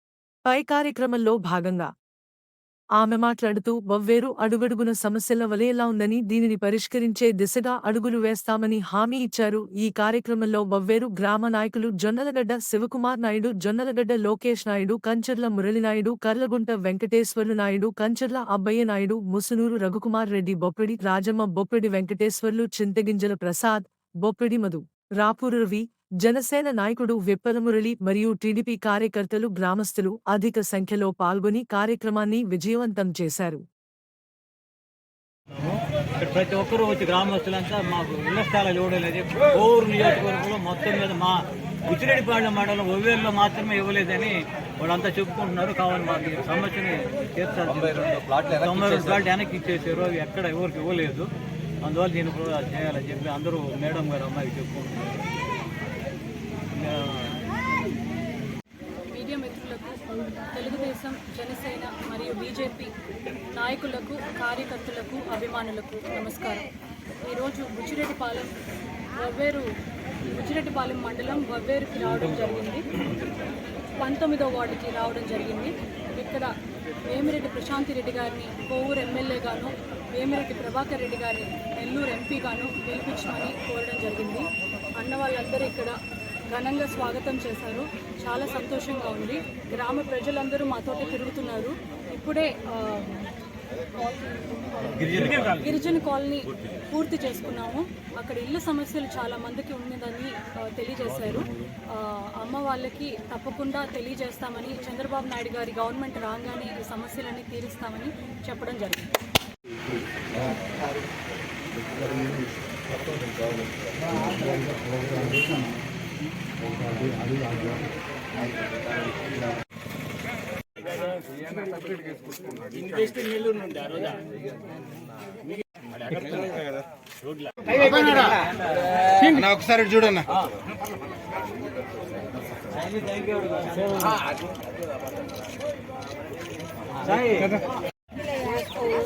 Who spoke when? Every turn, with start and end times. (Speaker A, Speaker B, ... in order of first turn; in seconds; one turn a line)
Speaker A: 0.5-1.9
Speaker A: 3.0-33.6
Speaker B: 35.6-51.3
Speaker B: 51.8-55.2
Speaker B: 56.8-57.4
Speaker C: 59.1-62.9
Speaker C: 63.5-66.7
Speaker C: 67.2-68.5
Speaker C: 69.2-69.7
Speaker C: 70.3-72.9
Speaker C: 74.0-76.5
Speaker C: 77.0-86.0
Speaker C: 86.5-93.3
Speaker C: 93.8-109.2
Speaker B: 95.0-95.7
Speaker D: 114.3-115.7
Speaker D: 117.0-117.7
Speaker D: 127.7-128.3
Speaker D: 129.2-130.2
Speaker B: 132.8-134.2
Speaker B: 137.0-137.6